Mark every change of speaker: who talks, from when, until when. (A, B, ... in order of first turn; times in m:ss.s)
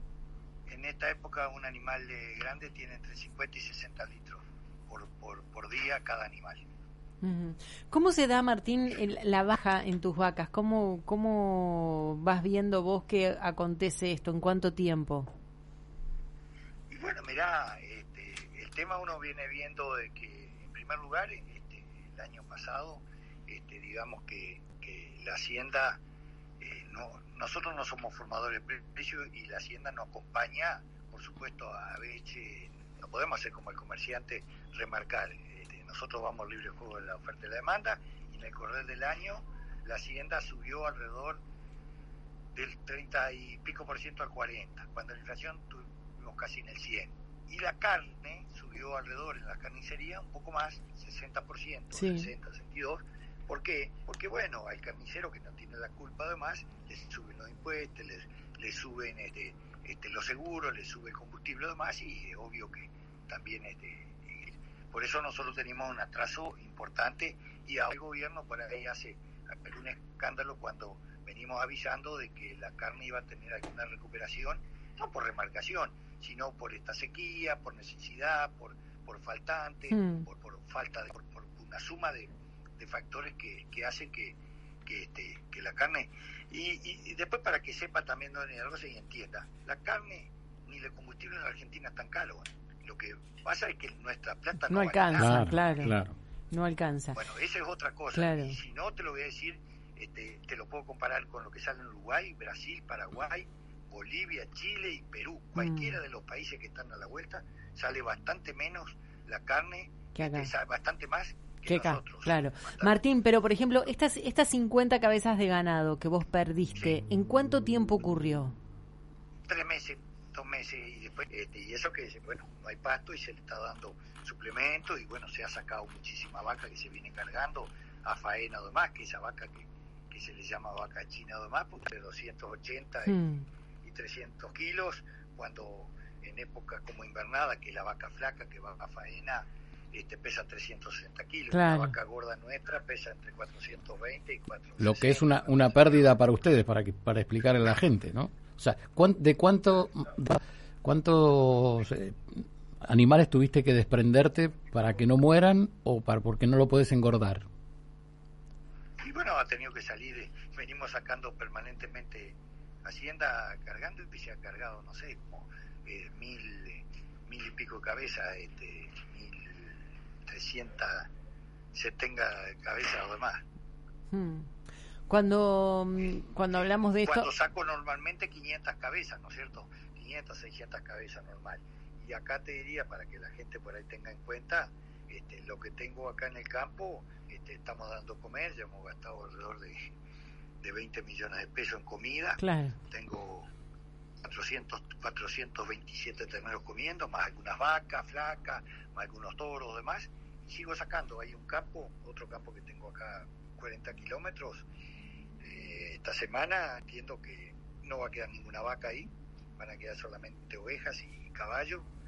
0:00.7-0:06.6 A
0:07.2-0:15.3 B
0:16.9-0:26.0 A
0:26.6-0:41.4 A
0:42.5-1:35.9 A
0:51.9-0:52.3 B
1:19.9-1:20.2 B
1:34.7-1:35.9 B
1:35.2-1:36.1 C
1:36.5-1:37.2 B
1:37.1-1:53.0 A
1:38.1-1:38.6 B
1:45.6-1:46.0 B
1:50.1-1:50.5 B
1:51.7-1:58.5 B
1:59.5-2:13.2 A
2:13.1-2:13.4 B
2:13.8-2:26.1 A
2:21.5-2:21.9 B
2:24.8-2:37.4 C
2:39.0-2:51.1 A
2:51.7-2:53.4 A
2:54.1-2:54.5 B
2:55.1-2:57.3 B
2:57.0-3:09.9 A
3:10.6-3:13.5 A
3:12.4-3:12.8 B
3:14.2-3:24.7 A
3:25.4-3:31.9 A